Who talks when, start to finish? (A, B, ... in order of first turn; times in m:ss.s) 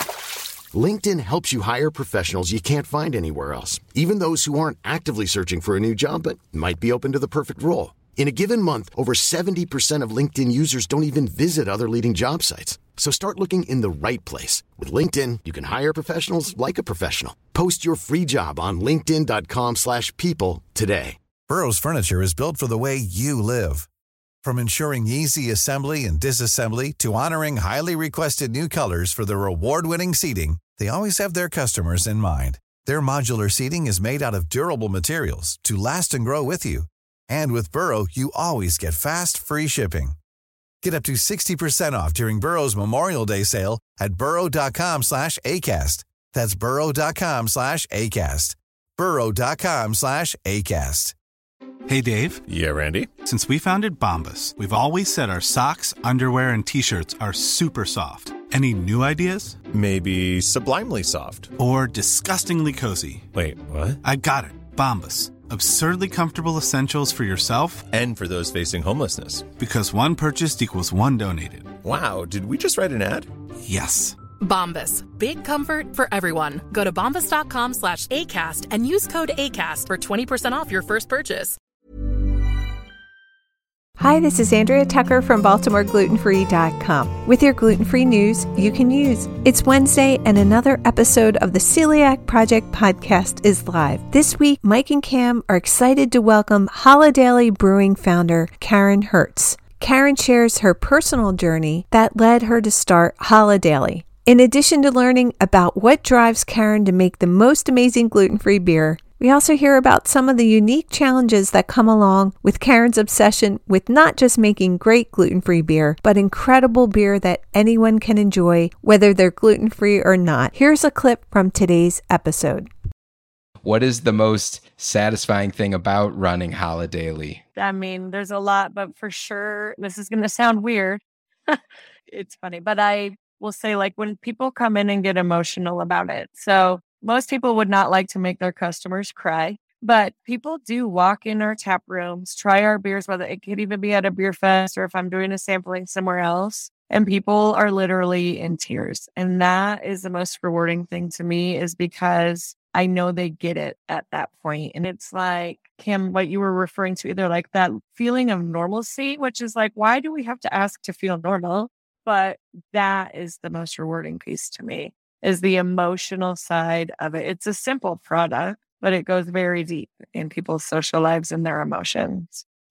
0:00.7-0:21.2 A
0:21.5-0:23.9 B
0:24.4-0:40.2 B
0:40.8-0:51.1 B
0:51.9-0:52.4 C
0:52.5-0:53.1 D
0:53.2-0:59.6 C
0:59.7-1:01.5 D
1:01.6-1:03.2 C
1:03.3-1:04.0 D
1:04.0-1:07.8 C
1:07.9-1:09.5 D
1:09.6-1:11.7 C
1:11.8-1:13.3 D
1:13.6-1:14.2 C
1:14.4-1:21.6 E
1:24.0-2:02.7 F
2:03.6-2:07.4 G
2:07.6-2:52.4 H